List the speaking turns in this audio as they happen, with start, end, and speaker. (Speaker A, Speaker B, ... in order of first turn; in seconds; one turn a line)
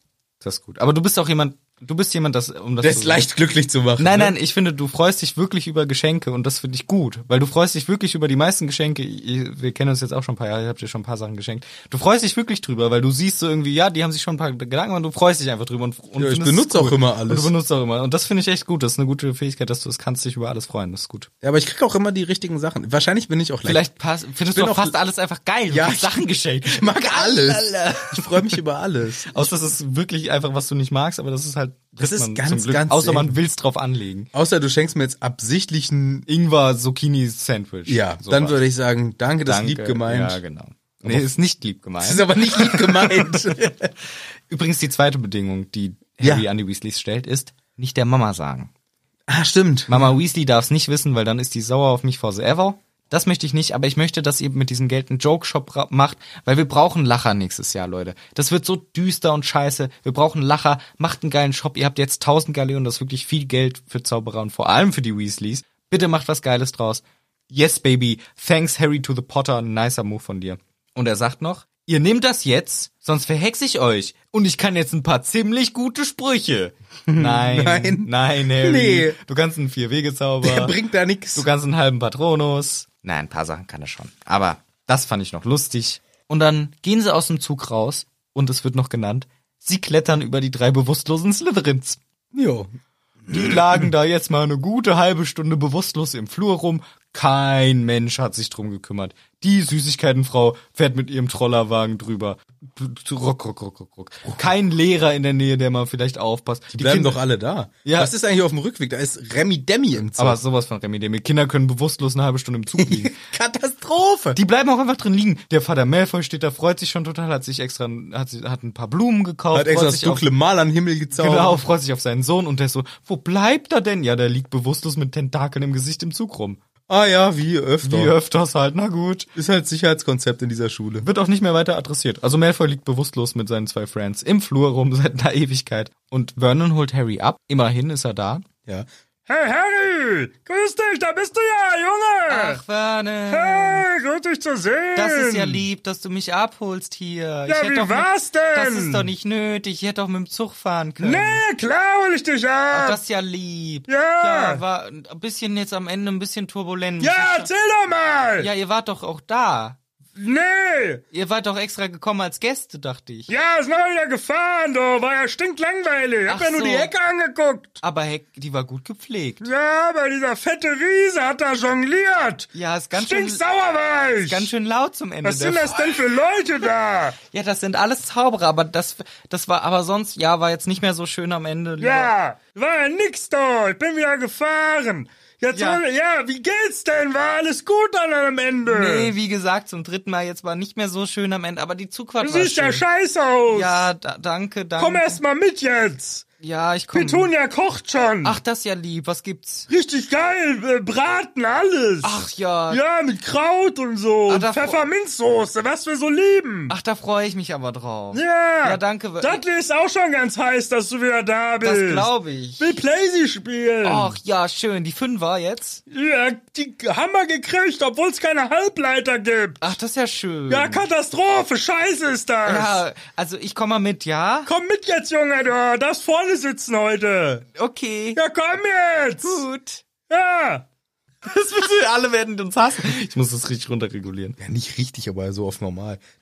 Speaker A: 0.4-3.3
Speaker B: 2.8-4.3
Speaker A: 4.0-21.3
Speaker B: 16.2-17.5
Speaker B: 21.4-23.8
Speaker A: 23.6-28.6
Speaker B: 24.5-25.0
Speaker B: 25.7-29.5
Speaker A: 29.3-34.3
Speaker B: 32.0-33.4
Speaker B: 34.3-36.3
Speaker A: 36.3-38.6
Speaker B: 37.9-40.4
Speaker A: 39.5-43.7
Speaker B: 41.0-41.3
Speaker B: 42.0-43.9
Speaker A: 44.5-48.7
Speaker B: 46.2-46.5
Speaker B: 49.3-50.1
Speaker A: 49.9-80.8
Speaker B: 77.1-79.2
Speaker B: 80.4-81.5
Speaker A: 81.3-92.0
Speaker B: 92.3-92.7
Speaker B: 93.2-93.9
Speaker A: 93.3-107.2
Speaker B: 106.7-110.4
Speaker A: 107.8-108.1
Speaker A: 110.1-113.2
Speaker B: 112.8-114.4
Speaker A: 114.3-120.3
Speaker B: 119.5-121.6
Speaker A: 121.1-126.6
Speaker B: 126.9-128.1
Speaker A: 127.8-129.3
Speaker B: 129.3-131.1
Speaker A: 131.0-138.4
Speaker C: 139.3-142.6
Speaker A: 142.3-143.9
Speaker C: 143.3-145.6
Speaker A: 144.9-151.4
Speaker C: 147.5-149.1
Speaker C: 151.0-153.0
Speaker A: 152.7-157.5
Speaker C: 153.9-154.6
Speaker C: 157.0-158.5
Speaker A: 158.4-159.8
Speaker C: 160.2-161.0
Speaker A: 161.1-163.3
Speaker C: 163.3-167.8
Speaker A: 166.3-166.9
Speaker A: 167.8-169.5
Speaker C: 169.4-174.5
Speaker A: 172.5-173.4
Speaker A: 174.2-176.0
Speaker C: 175.2-177.2
Speaker A: 177.2-182.1
Speaker C: 181.8-189.1
Speaker A: 185.5-185.8
Speaker A: 188.7-192.9
Speaker C: 192.2-193.9
Speaker A: 193.5-195.2
Speaker C: 194.8-196.2
Speaker A: 196.4-197.3
Speaker C: 196.9-198.4
Speaker A: 198.2-199.7
Speaker C: 199.7-202.2
Speaker A: 202.0-202.8
Speaker C: 202.7-206.7
Speaker A: 204.3-204.8
Speaker A: 206.7-209.4
Speaker C: 208.1-212.1
Speaker A: 211.6-212.8
Speaker C: 212.6-214.1
Speaker A: 213.8-215.8
Speaker C: 215.9-219.6
Speaker A: 219.6-220.9
Speaker C: 220.5-222.8
Speaker A: 222.4-224.5
Speaker C: 224.5-227.5
Speaker A: 227.6-228.2
Speaker C: 228.2-229.4
Speaker A: 229.2-229.8
Speaker C: 230.1-230.7
Speaker A: 231.2-234.4
Speaker B: 234.4-236.0